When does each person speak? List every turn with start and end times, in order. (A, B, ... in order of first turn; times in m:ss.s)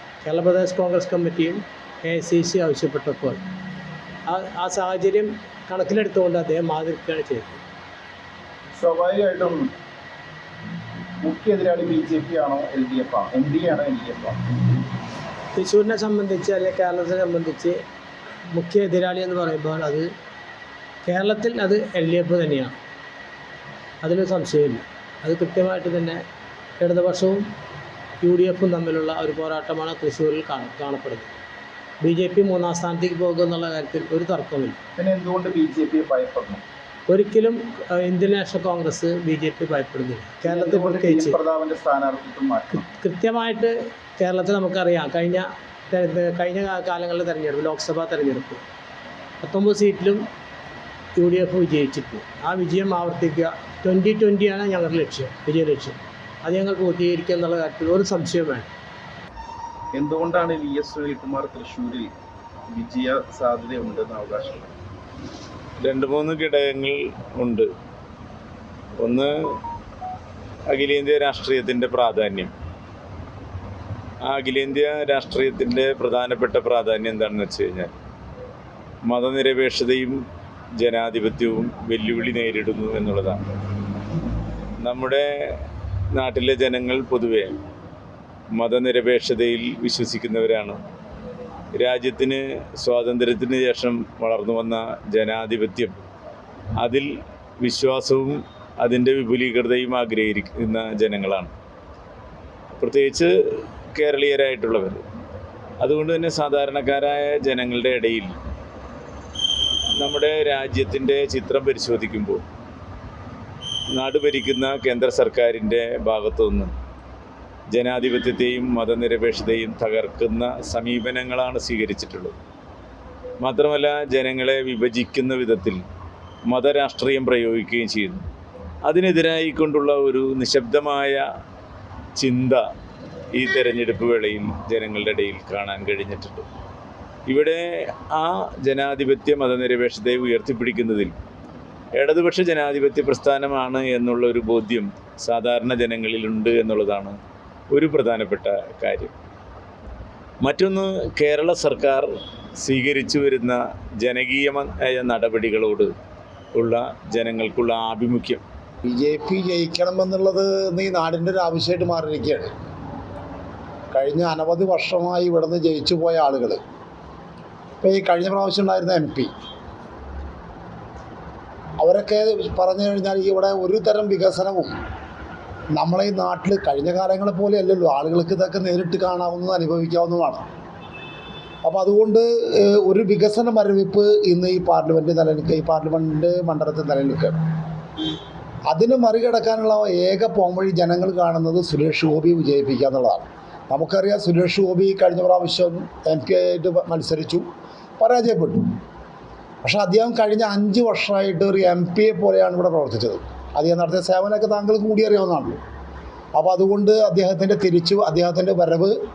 0:00.2-0:03.4 A
0:04.3-0:07.6 A
0:08.8-0:09.7 B
0:11.2-0:14.4 B
0:15.6-0:17.8 A
0:18.5-0:20.1 A
0:21.0-0:22.7 A
0:24.0-0:26.2 A
0:26.8-0:27.4 A
0:28.2-0:31.3 A
0:32.0-0:34.8 A
0:35.0-0:36.6 B
0:37.1-0:41.4 A
0:40.5-0:42.9 B
0:42.8-0:48.6 A
0:49.4-0:50.2 A
0:51.2-0:58.7 A
0:59.9-1:02.1 B
1:02.7-1:04.7 B
1:05.8-1:07.7 C
1:09.0-1:09.3 C
1:10.7-1:12.5 C
1:14.2-1:17.9 C
1:19.1-1:20.2 C
1:20.8-1:23.4 C
1:24.8-1:25.6 C
1:26.1-1:27.6 C
1:28.6-1:30.8 C
1:31.8-1:36.0 C
1:36.8-1:37.1 C
1:37.6-1:41.5 C
1:42.8-1:43.3 C
1:43.9-1:45.0 C
1:45.8-1:48.3 C
1:50.0-1:52.4 C
1:53.9-1:56.7 C
1:57.7-2:02.4 C
2:03.4-2:05.8 C
2:06.5-2:08.2 C
2:08.8-2:11.2 C
2:12.2-2:12.6 C
2:13.3-2:16.4 C
2:17.3-2:21.1 C
2:22.0-2:27.1 C
2:27.7-2:29.1 C
2:30.4-2:32.1 C
2:32.6-2:35.9 C
2:36.5-2:38.4 C
2:38.8-2:42.5 D
2:43.9-2:46.6 D
2:47.8-2:49.3 D
2:51.8-2:54.7 D
2:55.7-3:00.5 D
3:01.6-3:07.4 D
3:08.7-3:17.4 D
3:18.0-3:18.7 D
3:19.6-3:25.6 D
3:26.4-3:29.0 D